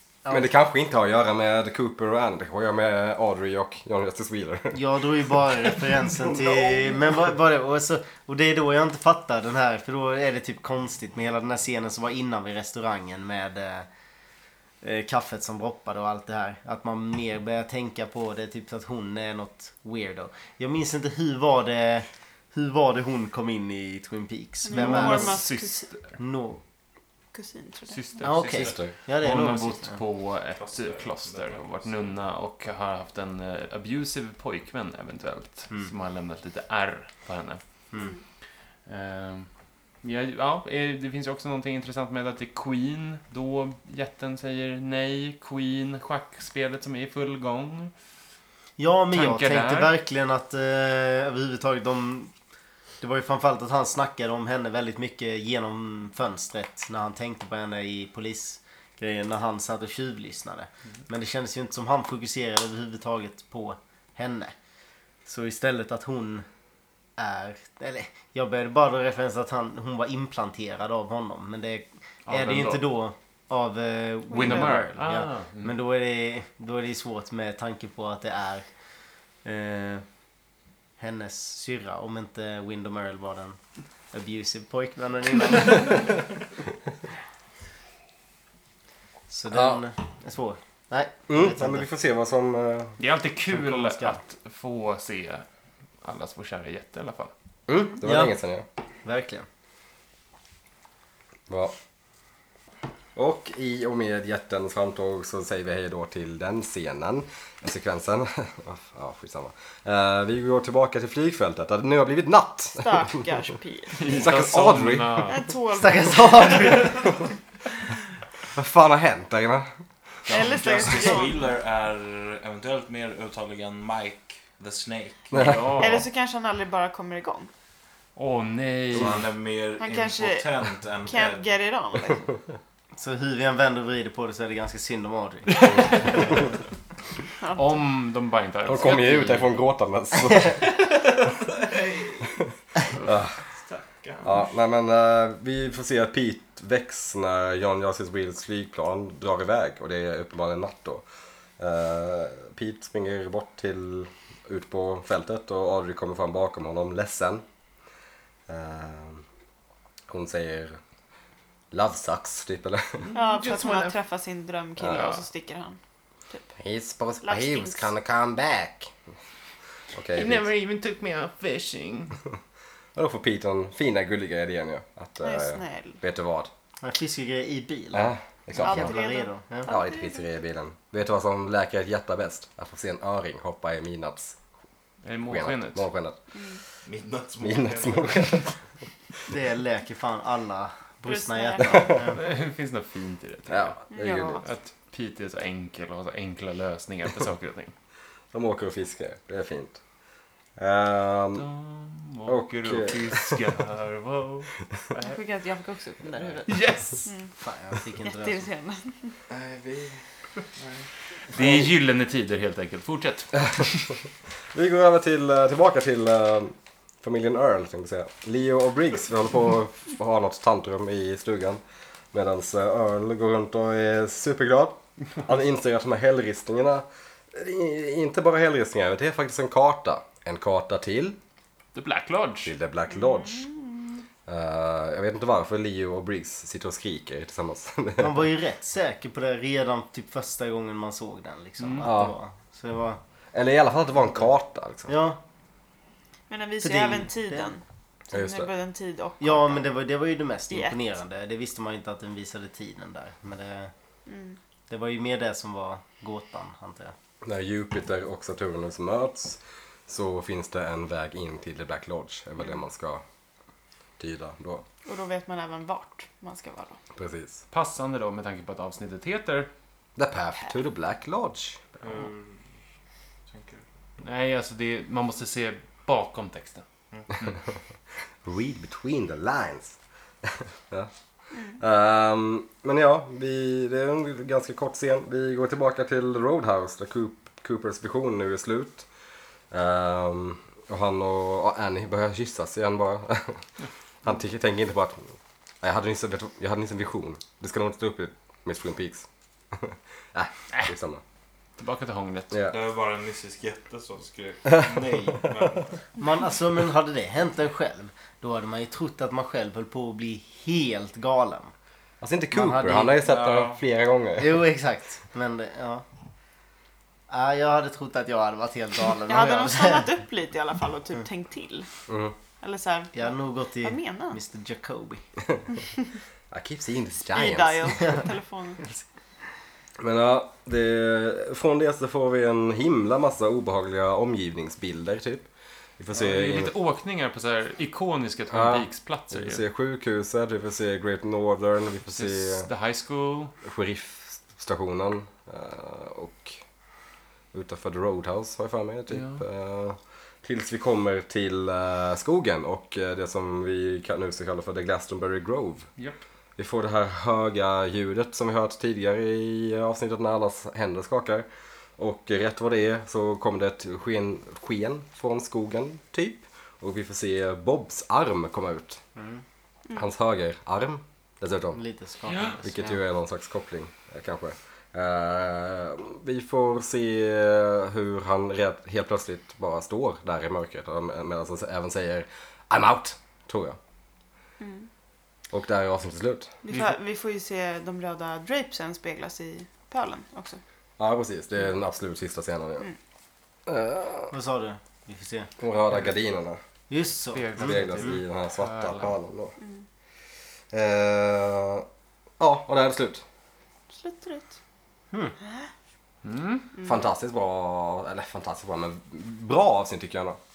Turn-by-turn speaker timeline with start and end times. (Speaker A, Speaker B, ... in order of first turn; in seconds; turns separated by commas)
Speaker A: 0.2-0.5, Speaker B: 0.3-4.8, Speaker A: 4.7-13.9, Speaker C: 6.0-7.1, Speaker A: 14.8-25.4, Speaker D: 24.6-25.9, Speaker E: 24.7-26.1, Speaker A: 26.2-26.6, Speaker D: 27.3-28.3, Speaker E: 27.9-37.6, Speaker A: 28.2-30.0, Speaker B: 28.6-28.9, Speaker C: 30.6-32.1, Speaker E: 38.9-39.5, Speaker E: 40.0-47.9, Speaker A: 48.8-52.3, Speaker E: 49.1-49.9, Speaker A: 53.0-64.5, Speaker A: 65.2-66.5, Speaker A: 67.2-78.7, Speaker E: 72.3-72.8, Speaker D: 74.3-74.7, Speaker E: 74.3-75.7, Speaker A: 79.4-80.0, Speaker A: 81.0-83.6, Speaker A: 84.1-86.2, Speaker A: 89.3-91.9, Speaker B: 89.5-89.8, Speaker B: 91.3-93.0, Speaker E: 93.0-95.5, Speaker A: 93.5-94.2, Speaker E: 96.0-97.3, Speaker B: 97.7-98.7, Speaker A: 98.0-98.3, Speaker A: 99.0-99.5, Speaker B: 101.5-101.7, Speaker B: 103.2-113.2, Speaker D: 112.8-114.3, Speaker E: 114.0-115.4, Speaker B: 114.1-115.4, Speaker D: 115.3-117.2, Speaker A: 115.7-117.1, Speaker B: 118.5-119.7, Speaker D: 120.3-121.5, Speaker C: 120.3-125.6, Speaker B: 125.3-126.0, Speaker E: 125.3-126.1, Speaker D: 125.7-127.5, Speaker E: 128.2-129.3, Speaker C: 128.9-131.5, Speaker D: 129.8-132.4, Speaker A: 132.9-136.3, Speaker E: 135.5-136.2, Speaker D: 137.4-137.7, Speaker E: 137.5-139.6, Speaker B: 138.7-140.7, Speaker C: 141.4-142.3, Speaker B: 143.0-143.4, Speaker C: 143.4-144.4, Speaker B: 144.2-151.0, Speaker B: 151.6-157.4, Speaker B: 158.5-159.2, Speaker B: 160.1-160.8, Speaker B: 161.7-163.1, Speaker E: 163.0-164.0, Speaker D: 163.1-165.8, Speaker B: 164.8-165.2, Speaker B: 166.6-168.9, Speaker D: 167.2-167.9, Speaker B: 169.9-170.5, Speaker E: 170.1-172.2, Speaker B: 172.9-176.5, Speaker D: 175.2-176.0, Speaker A: 176.8-179.7, Speaker B: 177.9-178.9, Speaker D: 178.6-180.2, Speaker B: 179.7-184.4, Speaker E: 185.0-185.9, Speaker B: 185.3-186.2, Speaker D: 186.3-186.6, Speaker C: 186.8-188.4, Speaker B: 187.4-188.6, Speaker A: 189.3-192.2, Speaker D: 191.1-192.1, Speaker B: 191.7-192.0, Speaker E: 191.9-193.8, Speaker B: 193.5-194.4, Speaker D: 193.9-194.4, Speaker E: 194.4-197.7, Speaker B: 198.3-199.8, Speaker B: 200.6-201.5, Speaker E: 201.4-205.2, Speaker B: 202.3-203.4, Speaker D: 205.0-207.3, Speaker E: 206.5-207.1, Speaker A: 207.4-208.5, Speaker D: 208.0-209.2, Speaker C: 210.6-210.9, Speaker E: 211.3-213.9, Speaker B: 211.4-211.7, Speaker B: 214.5-221.6, Speaker B: 222.1-231.2, Speaker E: 231.7-232.5, Speaker B: 232.4-233.5, Speaker D: 232.9-234.0, Speaker B: 234.3-238.3, Speaker A: 238.0-243.0, Speaker E: 241.6-241.9, Speaker B: 241.8-242.1, Speaker B: 243.3-244.9, Speaker A: 244.9-245.2, Speaker D: 246.3-249.7, Speaker A: 246.6-247.5, Speaker B: 248.1-248.5, Speaker A: 249.2-253.7, Speaker D: 254.1-254.4, Speaker A: 254.7-256.9, Speaker B: 257.2-263.0, Speaker B: 264.0-264.6, Speaker D: 264.9-266.8, Speaker B: 266.9-267.4, Speaker E: 267.5-269.5, Speaker B: 270.0-271.6, Speaker E: 271.8-272.1, Speaker C: 271.8-272.4, Speaker C: 273.3-273.6, Speaker E: 274.0-276.6, Speaker B: 278.2-280.9, Speaker B: 281.6-288.9, Speaker B: 289.5-293.4, Speaker B: 294.0-301.0, Speaker E: 301.6-302.3, Speaker B: 302.3-302.6, Speaker C: 302.5-305.8, Speaker B: 304.5-304.8, Speaker A: 306.0-311.5, Speaker B: 312.0-314.4, Speaker A: 312.3-313.0, Speaker C: 313.0-313.6, Speaker A: 314.2-315.9, Speaker A: 317.1-319.9, Speaker D: 319.1-321.7, Speaker B: 321.9-322.1, Speaker D: 322.4-324.2, Speaker A: 322.9-325.0, Speaker B: 326.3-328.0, Speaker D: 327.1-328.7, Speaker B: 329.8-336.5, Speaker E: 335.9-339.4, Speaker B: 338.3-342.5, Speaker E: 341.9-343.3, Speaker B: 343.4-346.4, Speaker B: 347.3-355.7, Speaker E: 348.9-349.2, Speaker B: 356.4-361.3, Speaker B: 361.8-368.8, Speaker A: 368.9-369.2, Speaker B: 369.7-371.6, Speaker A: 371.6-372.6, Speaker E: 372.1-372.4, Speaker B: 372.4-383.6, Speaker D: 384.4-384.7, Speaker B: 385.3-386.3, Speaker D: 386.4-390.4, Speaker E: 386.5-386.7, Speaker B: 390.8-392.7, Speaker B: 393.4-394.1, Speaker A: 394.1-395.3, Speaker B: 395.4-396.4, Speaker A: 396.7-398.0, Speaker E: 397.1-398.9, Speaker B: 397.4-399.4, Speaker B: 400.5-401.7, Speaker B: 402.2-403.0, Speaker D: 403.7-404.4, Speaker E: 406.0-406.5, Speaker B: 406.6-410.2